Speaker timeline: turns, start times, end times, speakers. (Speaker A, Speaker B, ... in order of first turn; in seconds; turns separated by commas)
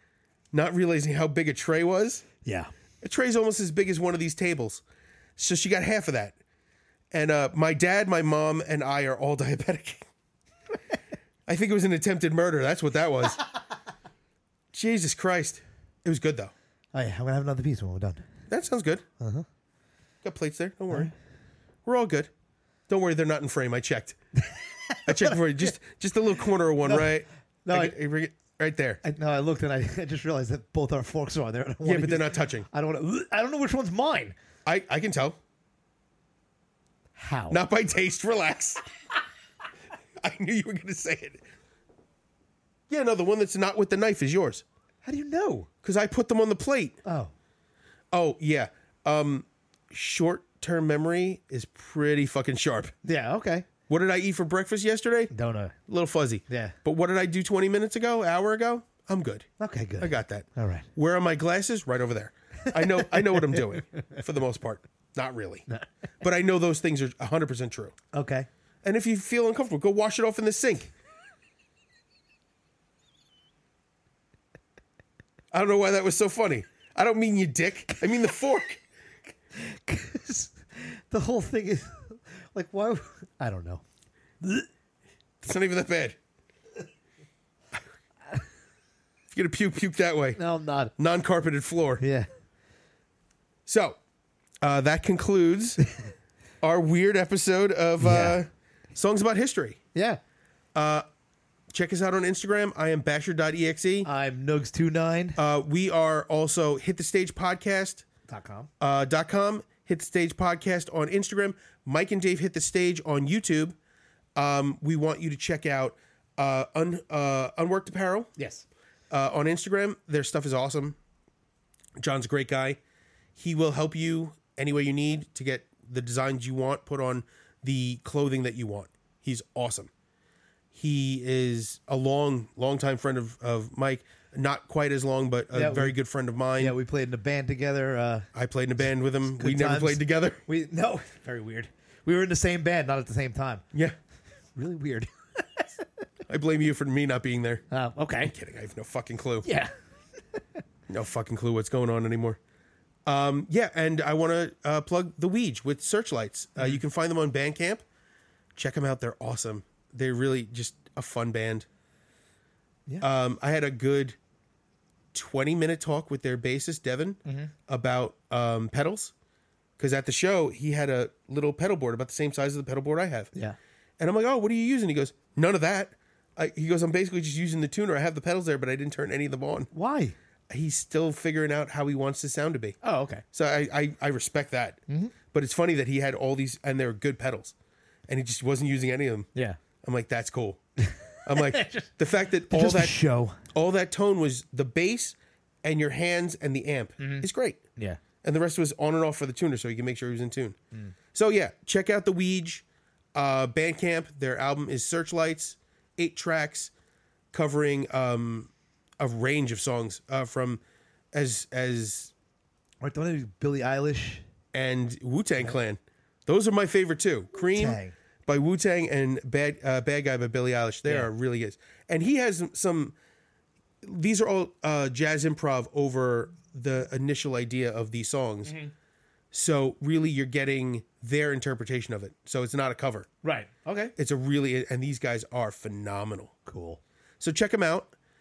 Speaker A: 0.5-2.2, Speaker B: 2.4-2.7, Speaker A: 3.0-4.8, Speaker A: 5.4-6.3, Speaker A: 7.1-10.0, Speaker A: 11.5-13.4, Speaker A: 14.7-16.5, Speaker B: 16.9-18.2, Speaker A: 18.5-19.0, Speaker B: 19.2-19.5, Speaker A: 20.2-21.1, Speaker A: 21.8-22.3, Speaker A: 22.9-24.2, Speaker B: 24.4-25.7, Speaker A: 25.1-29.0, Speaker B: 26.8-28.0, Speaker B: 29.0-34.3, Speaker A: 31.8-32.7, Speaker A: 34.6-35.4, Speaker B: 37.1-37.6, Speaker A: 37.5-38.8, Speaker A: 40.2-41.4, Speaker A: 42.9-44.6, Speaker B: 45.0-45.7, Speaker A: 45.8-47.0, Speaker B: 47.0-47.3, Speaker A: 48.1-52.9, Speaker B: 53.0-53.7, Speaker A: 53.9-55.3, Speaker B: 55.3-55.8, Speaker A: 55.9-59.5, Speaker B: 56.5-56.8, Speaker B: 59.6-60.9, Speaker A: 60.0-65.7, Speaker B: 62.6-64.2, Speaker A: 66.2-68.0, Speaker B: 68.1-68.5, Speaker A: 68.8-70.9, Speaker A: 75.5-78.8, Speaker B: 79.5-83.8, Speaker A: 85.4-86.2, Speaker A: 89.3-90.4, Speaker B: 90.3-90.9, Speaker A: 91.0-92.0, Speaker B: 92.0-92.3, Speaker A: 93.7-94.0, Speaker A: 94.6-95.8, Speaker A: 96.6-99.8, Speaker B: 98.0-98.4, Speaker B: 99.9-100.2, Speaker A: 100.7-101.0, Speaker A: 101.7-104.1, Speaker B: 104.0-105.4, Speaker A: 105.3-108.0, Speaker B: 108.3-108.7, Speaker A: 108.8-113.8, Speaker A: 114.3-118.3, Speaker B: 118.4-118.6, Speaker A: 119.1-121.0, Speaker A: 122.0-122.8, Speaker A: 123.3-129.9, Speaker A: 130.7-136.7, Speaker B: 135.5-135.9, Speaker B: 136.6-138.3, Speaker A: 138.3-140.4, Speaker B: 139.2-143.6, Speaker B: 144.6-145.8, Speaker A: 146.3-147.6, Speaker B: 147.7-148.3, Speaker A: 148.2-149.5, Speaker B: 149.4-149.7, Speaker A: 150.9-152.4, Speaker A: 153.1-157.8, Speaker A: 158.5-161.7, Speaker A: 163.0-164.2, Speaker A: 165.1-169.1, Speaker B: 167.2-167.5, Speaker A: 169.8-173.3, Speaker A: 174.0-179.7, Speaker B: 179.7-180.2, Speaker A: 180.5-182.8, Speaker B: 182.8-183.2, Speaker A: 183.3-184.8, Speaker B: 184.9-185.1, Speaker A: 185.3-187.5, Speaker A: 188.1-189.3, Speaker A: 189.8-190.6, Speaker B: 190.8-191.9, Speaker A: 191.2-193.0, Speaker B: 192.5-193.4, Speaker A: 193.5-197.6, Speaker B: 197.0-198.0, Speaker A: 198.2-200.6, Speaker A: 201.1-202.6, Speaker A: 203.1-206.7, Speaker A: 207.3-210.6, Speaker A: 211.1-212.1, Speaker B: 212.8-214.2, Speaker A: 214.5-222.9, Speaker B: 217.5-217.9, Speaker A: 223.8-228.6, Speaker B: 228.4-228.7, Speaker A: 229.3-233.1, Speaker B: 233.2-233.9, Speaker A: 234.0-236.3, Speaker B: 236.4-236.8, Speaker A: 237.2-237.9